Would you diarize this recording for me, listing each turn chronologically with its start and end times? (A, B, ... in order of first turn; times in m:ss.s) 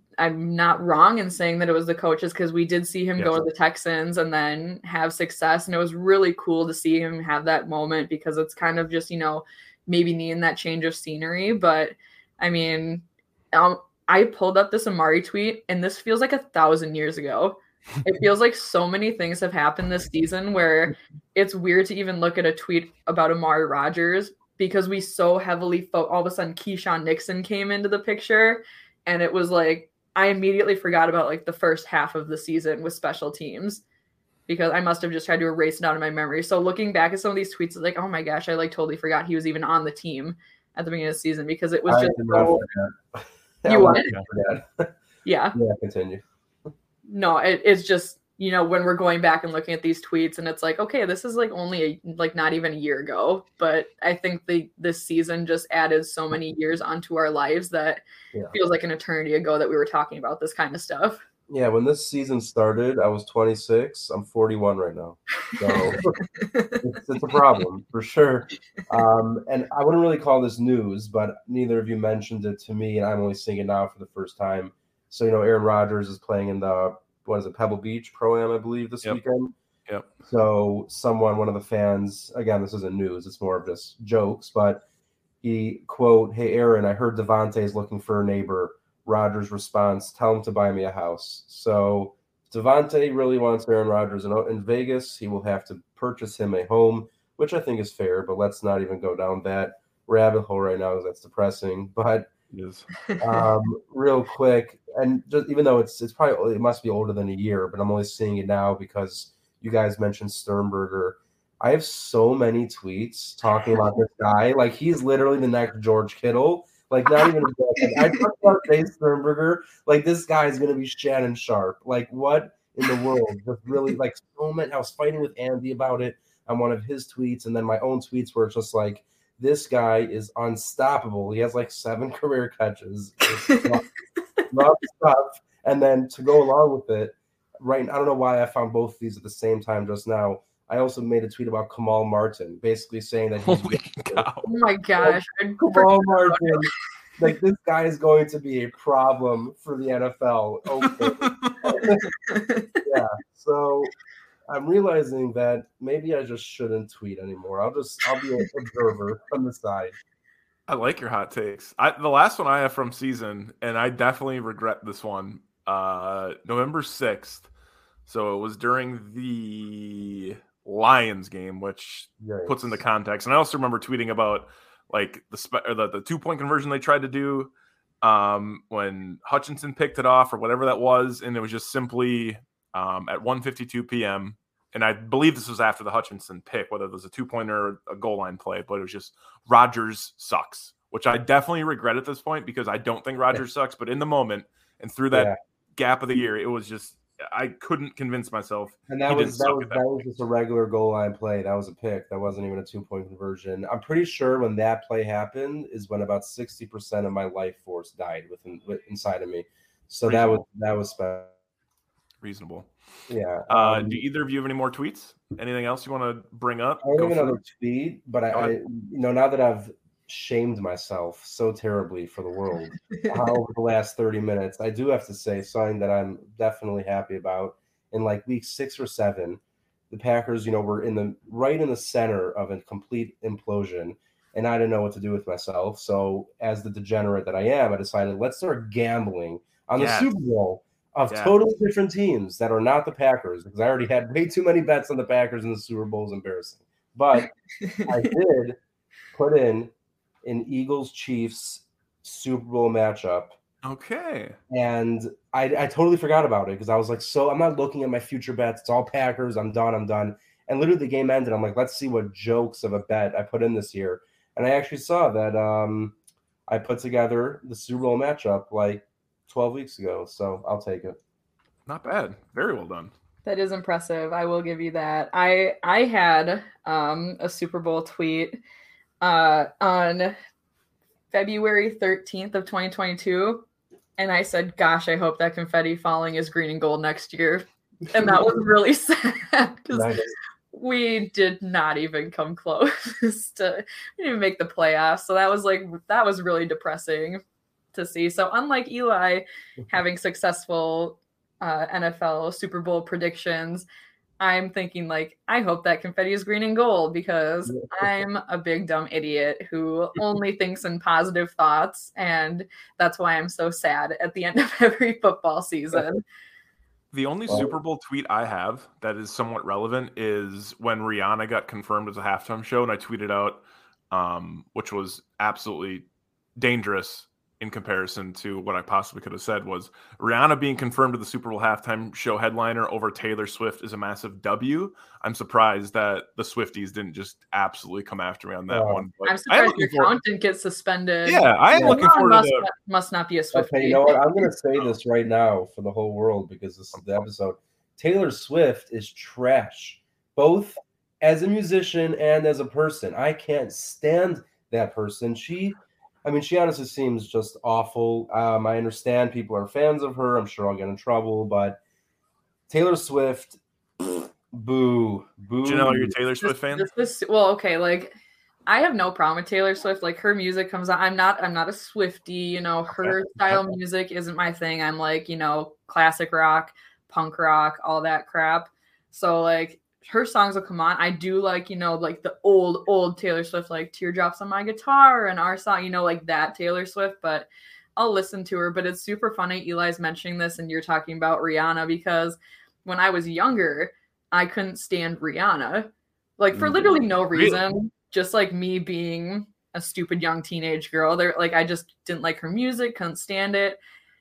0:00.2-0:33.8 A
0:34.5-0:42.6 A
0:41.9-0:44.9 B
0:43.7-0:44.1 A
0:43.9-0:44.3 C
0:45.2-0:45.6 A
0:45.6-0:46.2 B
0:47.1-1:01.2 A
1:01.5-1:06.1 B
1:05.7-1:06.8 A
1:06.8-1:19.5 B
1:20.2-1:24.8 B
1:25.4-1:42.3 B
1:42.5-1:42.9 C
1:43.1-1:43.4 A
1:43.2-2:13.8 B
1:57.8-1:58.1 A
2:13.4-2:13.8 A
2:14.5-2:24.3 B
2:23.4-2:24.5 C
2:24.4-2:26.7 A
2:25.0-2:32.1 B
2:31.2-2:31.6 C
2:32.3-2:32.8 A
2:32.8-2:33.9 B
2:34.5-2:40.0 B
2:40.7-2:47.5 C
2:48.1-3:19.9 C
2:52.2-2:52.8 B
3:15.1-3:15.4 B
3:18.9-3:31.3 B
3:30.1-3:30.4 C
3:32.2-3:32.7 C
3:33.1-3:34.0 B
3:33.5-3:37.4 C
3:36.8-4:07.3 B
3:38.3-3:38.6 C
3:42.9-3:43.2 A
3:59.8-4:00.1 C
4:01.1-4:01.4 C
4:07.6-4:08.0 A
4:07.9-4:08.6 B
4:09.1-4:09.7 B
4:10.2-4:13.4 B
4:13.6-4:14.4 C
4:14.5-4:26.0 B
4:26.5-4:31.0 B
4:31.7-4:32.9 C
4:33.2-4:38.4 A
4:39.0-4:40.2 A
4:41.1-4:43.4 A
4:44.0-4:50.0 A
4:49.7-4:50.1 B
4:50.5-4:57.2 A
4:57.7-5:03.7 A
5:04.2-5:16.0 A
5:07.5-5:07.8 B
5:16.9-5:25.8 C
5:26.4-5:40.0 C
5:38.5-5:38.8 B
5:39.0-5:44.3 A
5:41.1-5:42.5 C
5:41.5-5:41.8 B
5:43.3-6:01.6 B
6:02.5-6:05.9 B
6:05.4-6:06.7 C
6:06.2-6:08.0 A
6:08.5-6:43.6 A
6:36.3-6:36.8 B